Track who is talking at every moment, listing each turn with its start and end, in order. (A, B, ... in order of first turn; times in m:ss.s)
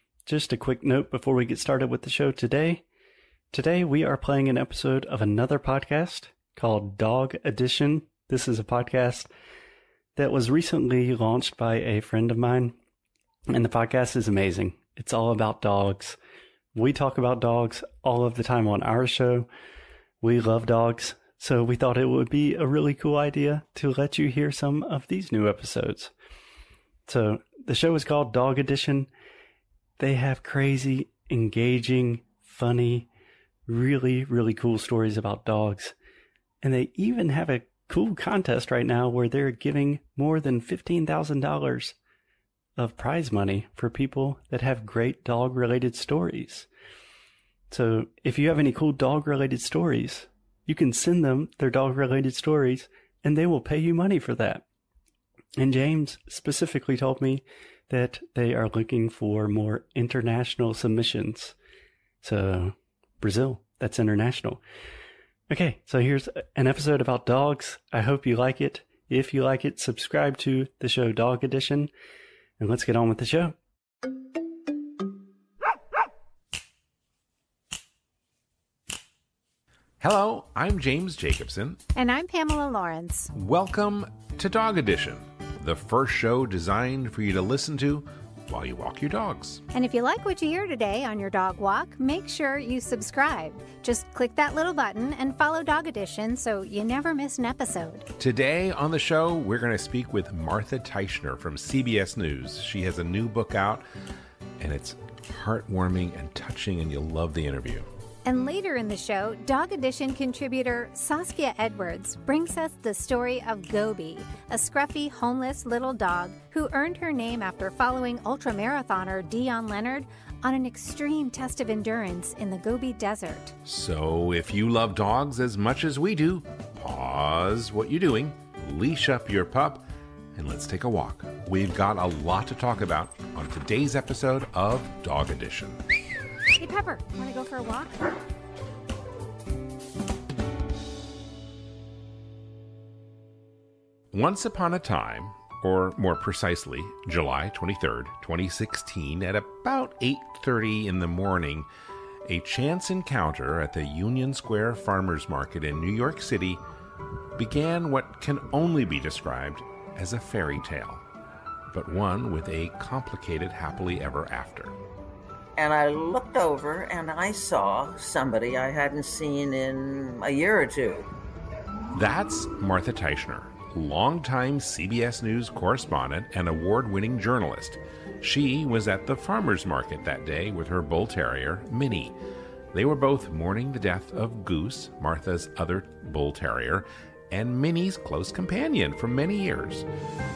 0:00.2-0:02.8 A
0:03.5-0:09.3 A
0:10.1-0:12.8 A
0:13.5-0:16.2 A
0:16.7-0:19.5 A
0:20.2-0:26.1 A
0:27.0-0:29.1 A
0:30.0-0:33.1 A
0:33.7-0:35.9 A
0:36.6-0:42.0 A
0:42.8-0:46.7 A
0:47.7-0:54.6 A
0:55.6-1:01.6 A
1:02.2-1:04.6 A
1:05.5-1:11.9 A
1:12.6-1:13.6 A
1:20.0-1:21.8 B
1:22.0-1:23.3 C
1:23.3-1:29.6 B
1:29.7-1:38.1 C
1:38.2-1:43.8 B
1:44.6-1:47.9 B
1:48.2-2:03.5 C
2:03.6-2:15.8 B
2:16.6-2:18.1 C
2:24.1-2:31.7 B
2:32.2-2:36.6 B
2:37.4-2:41.0 B
2:41.7-2:44.8 B
2:45.6-2:51.1 D
2:51.9-3:02.2 B
3:02.7-3:09.9 B